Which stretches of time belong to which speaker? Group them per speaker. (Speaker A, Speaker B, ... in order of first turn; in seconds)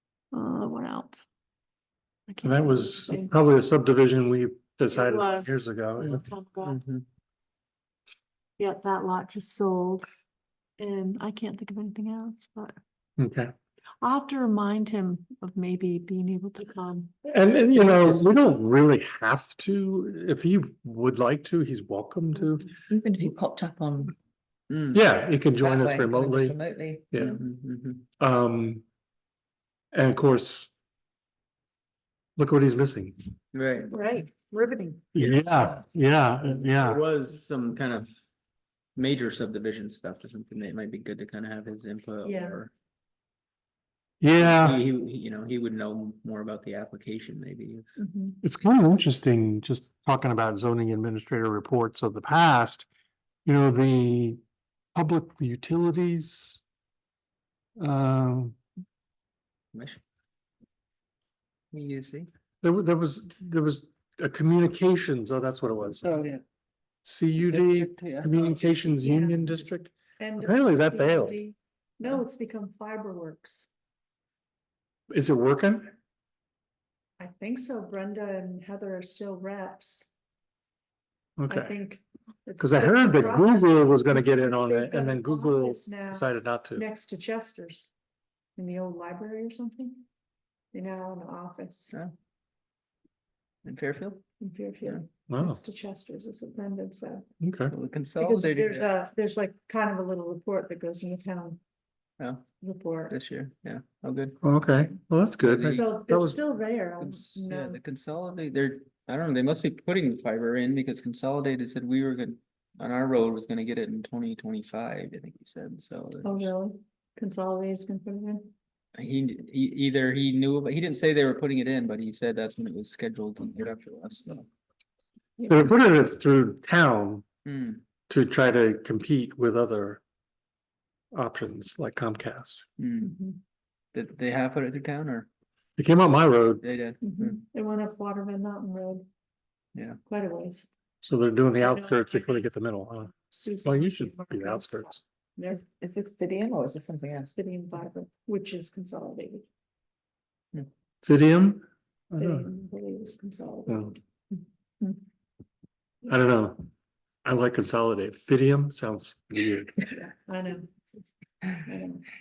Speaker A: 0.3-1.2, 2.3-3.3, 4.9-6.8, 8.6-10.1, 10.8-12.8, 14.0-17.3, 33.9-35.6, 42.2-42.6, 48.0-48.4, 69.0-69.4, 70.2-73.7, 77.2-80.1, 81.5-87.9, 88.5-90.0, 90.7-91.9, 94.4-97.2, 98.2-101.6, 102.6-103.2, 105.7-107.8, 116.2-118.5, 133.0-133.4, 137.0-139.1, 140.1-140.7, 141.6-142.4, 143.3-145.6, 147.3-149.5, 152.2-154.0, 159.9-160.7, 161.6-162.1
Speaker B: 2.4-6.2, 13.2-13.5, 17.3-22.7, 24.9-26.6, 27.1-27.4, 28.2-28.8, 29.9-30.7, 32.4-33.1, 35.1-37.0, 44.2-44.8, 48.4-52.9, 53.4-54.4, 54.9-56.6, 57.8-58.6, 62.6-66.2, 67.0-71.4, 75.1-75.9, 81.4-81.8, 82.6-86.8, 95.3-95.6, 97.4-97.7, 104.4-106.4, 125.5-127.2, 128.1-130.0, 131.1-132.6, 135.8-136.6, 141.0-144.9, 151.0-152.5, 153.7-153.9, 156.1-156.7, 157.2-159.8
Speaker C: 6.0-7.0, 17.8-18.2, 24.7-25.0, 27.3-28.0, 33.5-33.9, 36.6-38.1, 39.0-42.7, 44.4-47.8, 59.7-60.0, 61.7-62.3, 66.0-66.4, 67.4-68.7, 93.6-94.2, 97.7-98.8, 102.2-102.4, 103.1-104.4, 105.4-105.9, 107.0-116.5, 118.9-124.5, 127.4-127.8, 132.8-133.2, 133.9-135.3, 136.6-137.4
Speaker D: 22.9-24.1, 25.5-27.1, 145.6-147.3